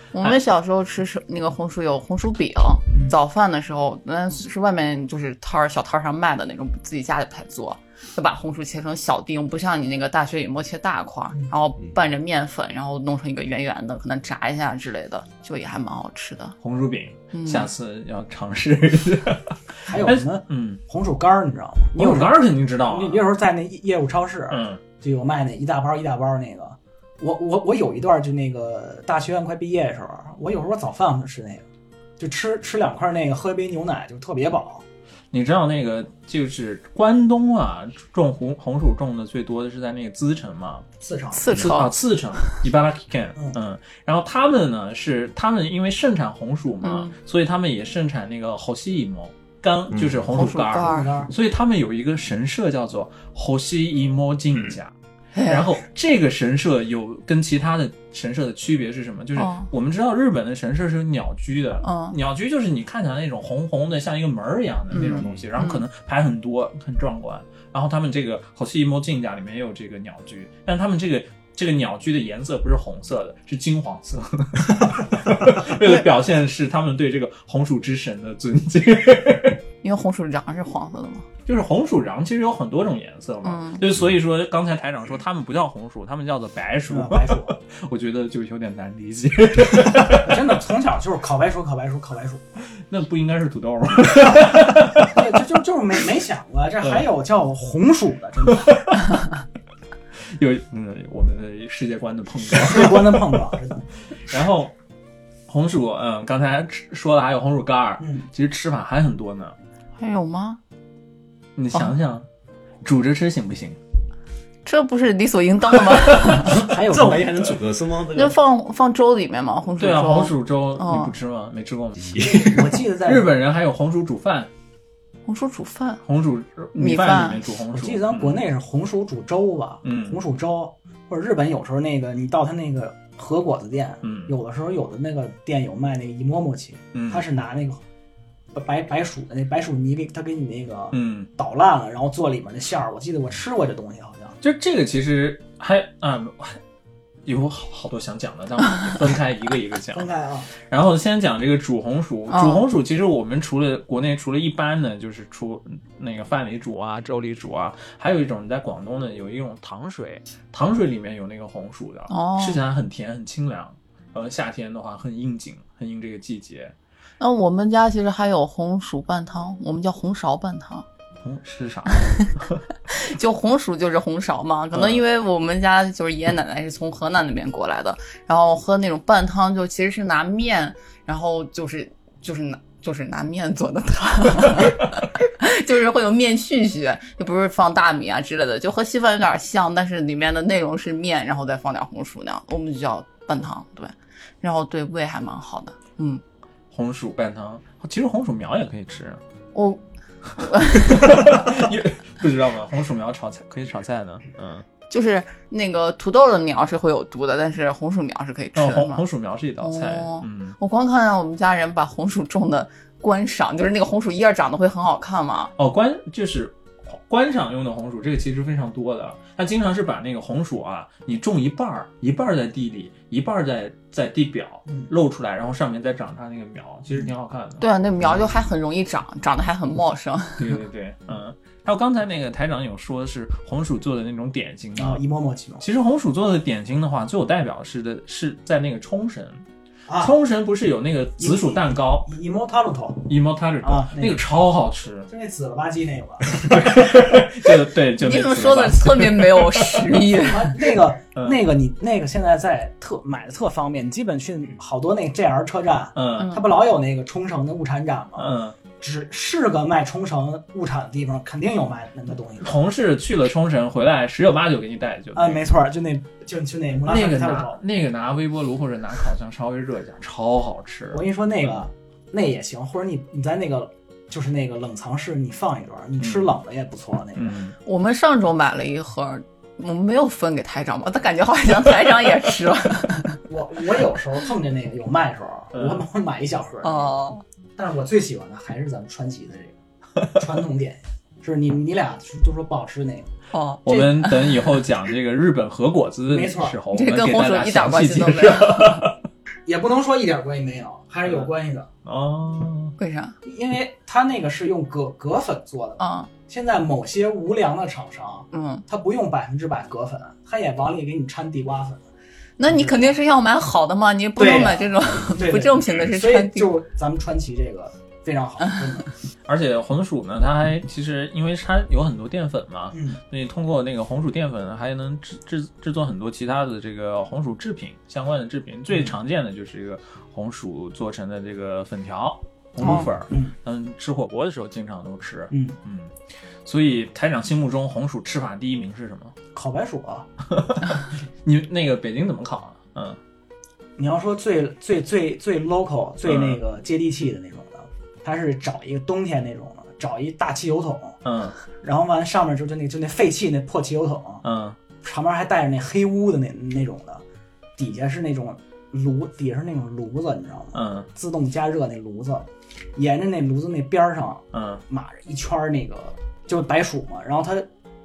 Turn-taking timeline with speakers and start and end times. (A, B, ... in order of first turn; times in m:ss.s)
0:00.1-0:16.6 A
0:16.6-0:20.8 B
0:17.3-0:17.7 A
0:19.8-0:31.6 C
0:21.9-0:23.2 B
0:24.5-0:24.8 B
0:32.2-0:34.8 C
0:35.3-0:40.8 B
0:41.0-0:41.5 C
0:41.3-0:41.9 A
0:41.5-0:54.9 B
0:46.8-0:47.1 A
0:49.9-0:50.2 D
0:50.3-0:51.1 A
0:50.7-0:51.3 C
0:55.3-0:55.7 A
0:55.4-1:19.6 B
0:59.4-0:59.7 A
1:01.8-1:02.2 A
1:04.9-1:05.8 A
1:05.1-1:05.5 D
1:19.8-1:21.2 A
1:21.4-1:30.4 B
1:23.4-1:23.8 A
1:26.9-1:27.6 C
1:30.1-1:32.4 C
1:32.8-1:35.2 B
1:35.0-1:38.8 C
1:38.5-1:39.0 B
1:40.3-1:43.4 B
1:42.4-1:43.8 C
1:44.1-1:44.7 B
1:45.5-1:49.5 B
1:48.0-1:48.3 C
1:50.0-1:50.6 A
1:51.6-1:52.2 B
1:52.8-1:53.8 B
1:54.6-1:56.5 A
1:56.3-1:58.4 D
1:56.5-1:57.5 C
1:58.1-2:01.1 A
1:59.8-2:04.5 B
2:02.0-2:02.7 D
2:02.4-2:03.3 C
2:05.3-2:06.0 A
2:06.0-2:08.4 B
2:06.8-2:07.4 A
2:07.7-2:17.8 C
2:09.8-2:10.2 B
2:14.0-2:14.3 B
2:16.9-2:17.2 B
2:18.5-2:24.4 C
2:20.9-2:21.3 B
2:24.4-2:26.6 B
2:27.2-2:46.7 B
2:29.9-2:30.5 C
2:32.3-2:32.6 A
2:42.1-2:42.6 A
2:47.2-2:50.8 A
2:51.2-2:52.6 B
2:52.9-3:16.2 A
2:54.7-2:55.0 B
3:16.7-3:19.2 B
3:19.5-3:19.8 A
3:20.4-3:21.5 A
3:20.6-3:24.6 B
3:24.9-3:29.0 A
3:28.5-3:30.6 B
3:29.6-3:35.5 A
3:35.6-3:47.6 B
3:47.6-3:50.6 A
3:50.4-3:55.0 B
3:54.8-3:55.6 C
3:55.6-3:59.4 B
3:59.9-4:00.1 C
4:00.0-4:02.1 B
4:01.2-4:03.1 C
4:03.0-4:05.1 B
4:03.6-4:04.2 C
4:05.1-4:07.2 C
4:06.3-4:10.0 B
4:08.0-4:10.6 A
4:10.2-4:22.6 C
4:11.1-4:11.4 B
4:15.9-4:16.4 B
4:16.2-4:16.4 A
4:18.2-4:18.5 B
4:22.4-4:25.4 B
4:25.1-4:27.6 C
4:26.8-4:31.6 B
4:30.9-4:37.4 C
4:36.0-4:36.4 B
4:37.2-4:37.5 B
4:37.6-4:43.2 A
4:43.3-4:53.1 C
4:45.5-4:45.8 B
4:46.6-4:47.2 A
4:53.3-4:54.5 A
4:53.6-4:59.0 B
4:56.1-4:56.6 C
4:56.7-4:58.9 A
4:59.4-5:01.7 C
5:01.8-5:02.7 B
5:02.8-5:03.2 A
5:03.2-5:11.8 C
5:05.8-5:06.1 A
5:08.3-5:08.6 A
5:12.4-5:16.6 A
5:12.5-5:12.9 C
5:14.2-5:18.9 C
5:19.3-5:39.1 B
5:22.7-5:23.0 C
5:32.6-5:33.3 C
5:35.3-5:35.6 C
5:39.3-5:40.1 C
5:40.3-5:43.0 B
5:43.8-5:51.0 C
5:46.0-5:46.4 B
5:51.0-5:51.4 B
5:51.6-5:54.2 C
5:54.2-5:54.6 B
5:54.8-5:57.0 C
5:57.6-6:07.5 C
6:00.5-6:00.9 B
6:04.3-6:04.6 B